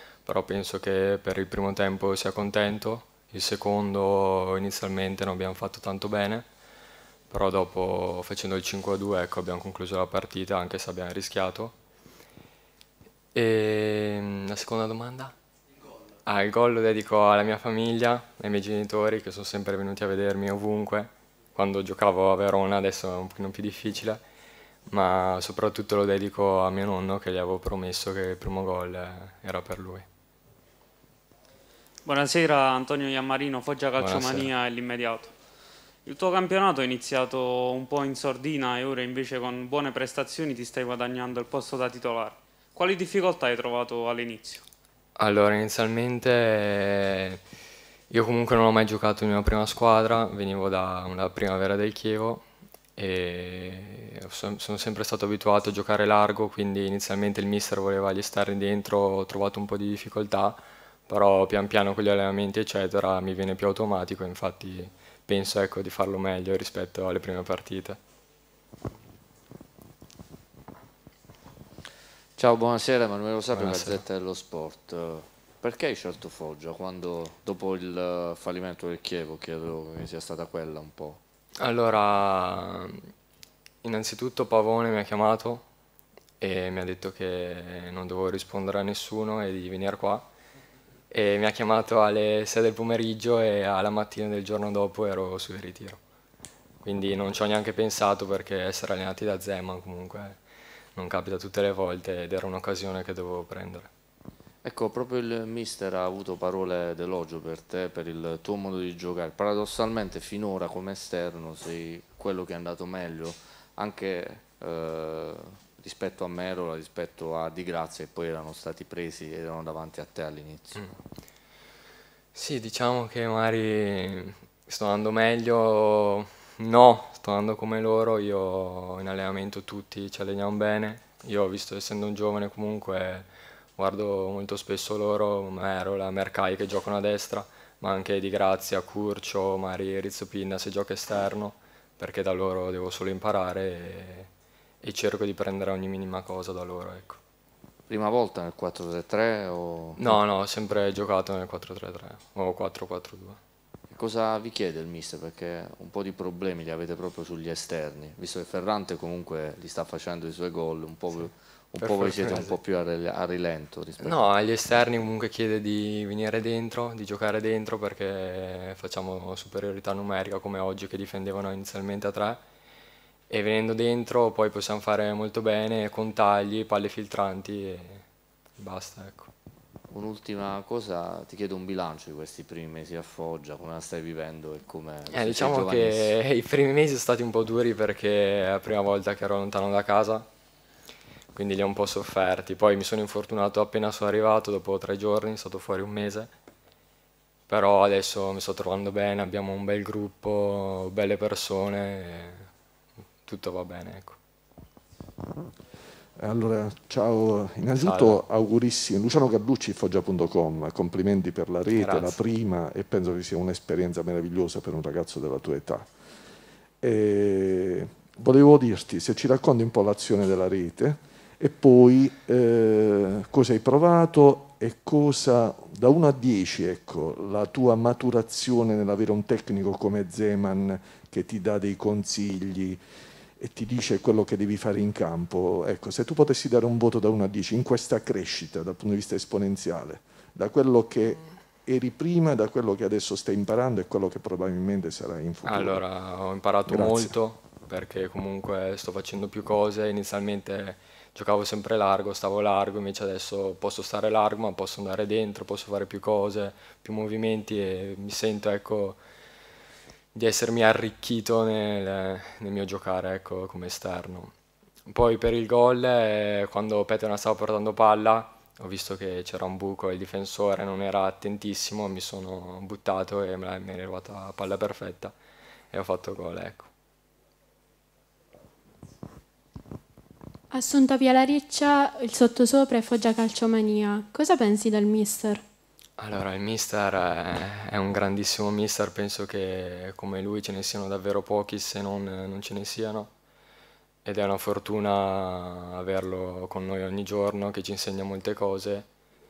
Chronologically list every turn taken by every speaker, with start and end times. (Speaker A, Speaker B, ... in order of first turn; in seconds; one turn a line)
Speaker A: 0.2-6.5
Speaker A: 7.3-11.7
Speaker A: 13.3-15.3
Speaker A: 16.2-24.2
Speaker A: 24.9-30.1
Speaker B: 32.0-35.3
Speaker A: 34.0-34.5
Speaker B: 36.0-44.6
Speaker A: 45.2-47.4
Speaker A: 48.1-52.4
Speaker A: 53.0-68.0
Speaker C: 72.4-81.2
Speaker A: 73.5-74.0
Speaker A: 81.6-83.1
Speaker A: 83.8-85.7
Speaker A: 86.4-90.3
Speaker A: 91.1-96.0
Speaker A: 96.8-100.4
Speaker A: 101.0-103.9
Speaker C: 104.6-120.9
Speaker A: 122.3-144.3
Speaker A: 144.8-147.2
Speaker C: 147.9-150.2
Speaker A: 150.0-153.4
Speaker C: 153.9-164.2
Speaker A: 161.8-162.6
Speaker A: 164.0-172.4
Speaker A: 173.3-178.0
Speaker A: 178.6-179.3
Speaker C: 179.9-186.1
Speaker A: 185.1-190.3
Speaker A: 191.3-196.3
Speaker A: 197.5-202.5
Speaker A: 203.2-204.2
Speaker D: 206.2-215.9
Speaker A: 207.8-208.2
Speaker A: 211.7-212.2
Speaker D: 216.8-232.8
Speaker D: 233.4-245.8
Speaker A: 245.4-259.0
Speaker D: 246.7-247.1
Speaker A: 260.1-264.3
Speaker A: 264.9-275.1
Speaker A: 275.7-276.7
Speaker E: 280.5-285.4
Speaker A: 286.0-293.1
Speaker A: 294.0-298.9